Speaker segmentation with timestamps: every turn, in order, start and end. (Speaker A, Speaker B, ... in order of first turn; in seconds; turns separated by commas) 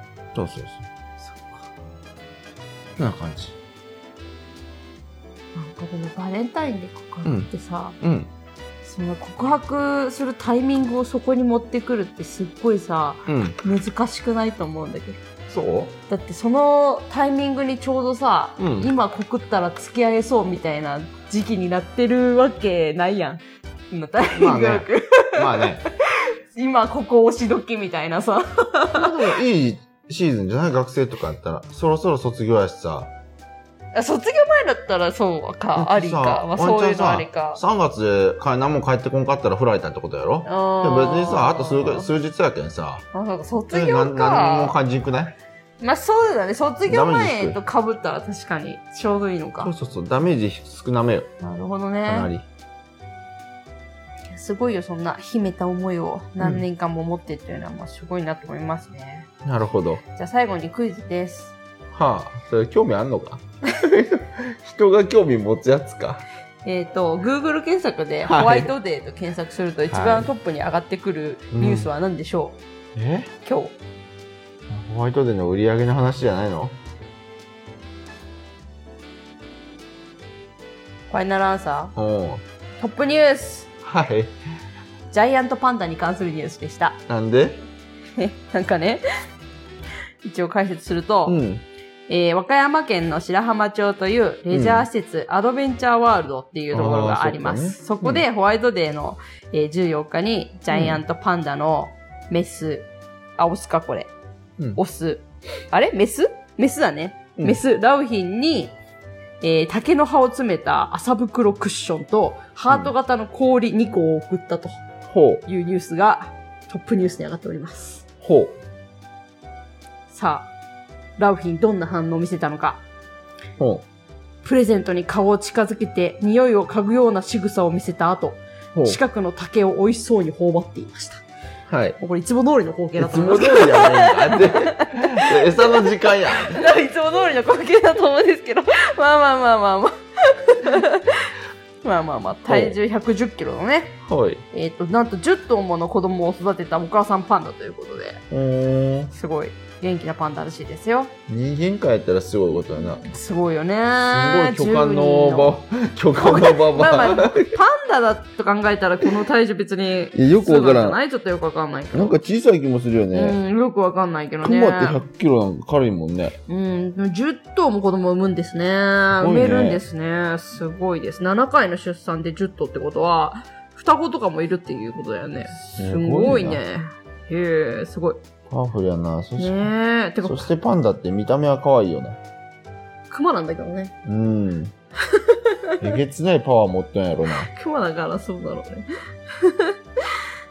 Speaker A: 0.3-0.9, Speaker B: 1.2-1.7, Speaker A: 3.0-3.6, Speaker B: 5.5-8.0, Speaker A: 7.2-7.5, Speaker A: 8.0-8.3, Speaker B: 8.8-15.2, Speaker A: 13.3-13.6, Speaker A: 15.5-15.9, Speaker B: 16.1-29.3, Speaker A: 18.6-18.9, Speaker A: 24.3-25.8, Speaker A: 28.9-33.1, Speaker B: 33.9-37.6, Speaker A: 35.8-43.0, Speaker B: 40.5-42.1, Speaker B: 43.1-44.8, Speaker A: 43.7-45.4, Speaker B: 45.8-49.7, Speaker A: 46.8-47.6, Speaker A: 49.6-51.3, Speaker B: 51.4-52.3, Speaker A: 52.1-52.5, Speaker B: 54.3-59.3, Speaker A: 59.5-60.0, Speaker B: 60.1-61.6, Speaker A: 61.9-66.2, Speaker B: 66.7-72.6, Speaker A: 68.2-68.7, Speaker A: 69.9-70.3, Speaker A: 71.5-71.9, Speaker A: 73.0-73.3, Speaker B: 73.4-73.8, Speaker A: 74.7-76.8, Speaker B: 81.1-81.9, Speaker A: 82.0-82.4, Speaker B: 82.8-83.7, Speaker A: 83.8-84.3, Speaker B: 85.1-87.0, Speaker A: 87.1-87.6, Speaker B: 88.2-89.0, Speaker B: 90.2-91.4, Speaker A: 91.3-91.7, Speaker B: 92.1-104.1, Speaker A: 94.5-94.9, Speaker A: 96.7-98.2, Speaker A: 100.7-101.0, Speaker B: 104.8-108.8, Speaker B: 109.4-114.8, Speaker A: 115.1-115.4, Speaker B: 115.5-118.0, Speaker A: 118.2-118.6, Speaker B: 120.1-120.5, Speaker B: 121.2-122.8, Speaker A: 123.6-123.8, Speaker B: 124.4-131.2, Speaker A: 128.7-129.0, Speaker A: 131.7-132.0, Speaker B: 132.0-135.8, Speaker A: 133.0-136.6, Speaker B: 136.3-141.3, Speaker B: 141.8-144.0, Speaker A: 142.5-142.8, Speaker A: 144.1-144.4, Speaker B: 144.5-148.2, Speaker A: 148.3-149.1, Speaker B: 149.1-151.1, Speaker A: 151.3-153.1, Speaker B: 152.8-155.6, Speaker A: 154.0-157.6, Speaker B: 156.2-162.2, Speaker A: 160.1-161.0, Speaker A: 161.9-163.4, Speaker B: 163.1-165.0, Speaker A: 164.4-166.4, Speaker B: 166.5-178.2, Speaker A: 169.2-169.8, Speaker A: 175.7-176.6, Speaker A: 178.5-179.7, Speaker B: 179.4-180.5, Speaker A: 180.2-182.2, Speaker B: 183.1-183.9, Speaker A: 184.1-184.7, Speaker B: 185.1-185.9, Speaker A: 185.8-187.5, Speaker B: 187.4-188.9, Speaker B: 189.4-189.7